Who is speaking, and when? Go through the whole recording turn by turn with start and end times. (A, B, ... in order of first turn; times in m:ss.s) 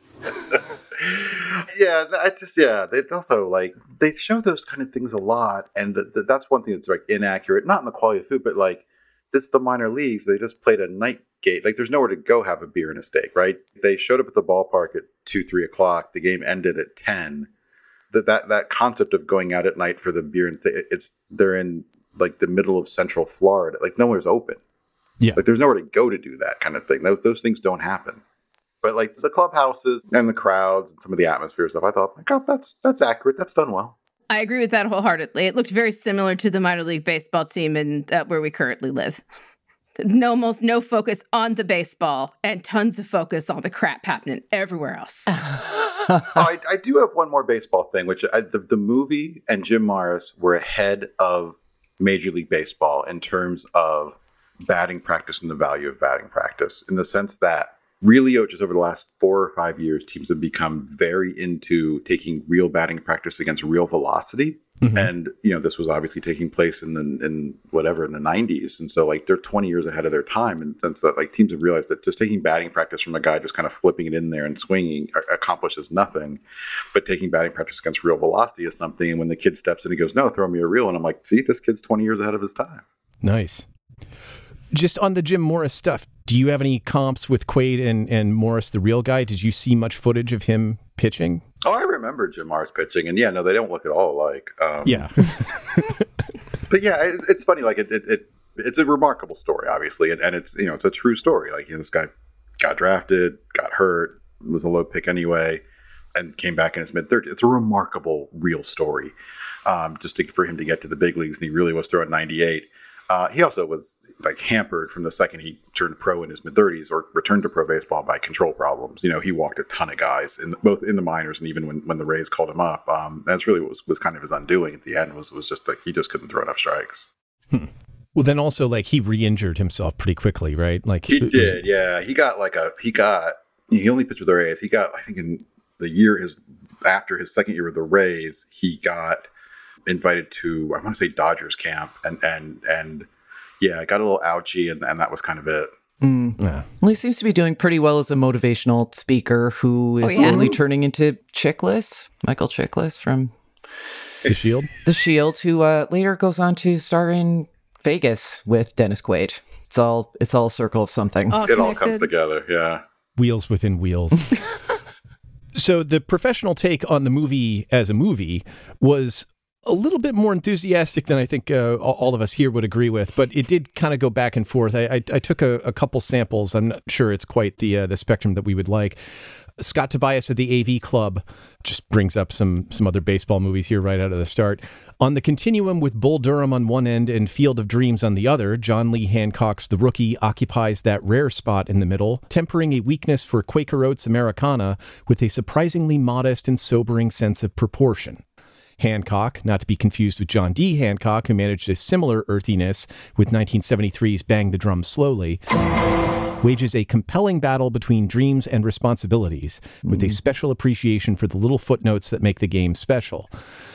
0:00.5-0:17.5 A
0:18.1-0:24.6 A
0:25.4-0:28.2 A
0:28.8-0:33.9 A
0:34.3-0:39.2 B
0:40.0-0:45.3 B
0:46.2-1:16.4 A
1:04.8-1:05.1 C
1:16.9-1:22.8 A
1:23.2-1:23.6 C
1:24.7-1:31.4 C
1:31.6-1:35.1 A
1:34.8-1:36.0 C
1:36.7-1:42.1 A
1:42.6-1:45.6 A
1:46.1-1:49.1 A
1:49.6-2:07.1 A
2:07.5-2:11.6 C
2:11.1-2:19.3 A
2:19.8-2:23.1 A
2:23.6-2:25.7 A
2:26.0-2:33.3 D
2:26.4-2:26.6 C
2:30.0-2:30.5 B
2:34.3-2:34.7 C
2:34.8-2:41.4 D
2:41.3-2:42.1 B
2:41.4-2:42.8 A
2:43.2-2:44.5 C
2:45.5-2:59.0 C
2:59.6-3:18.2 C
3:18.8-3:25.4 C
3:26.4-3:33.3 C
3:29.8-3:30.2 D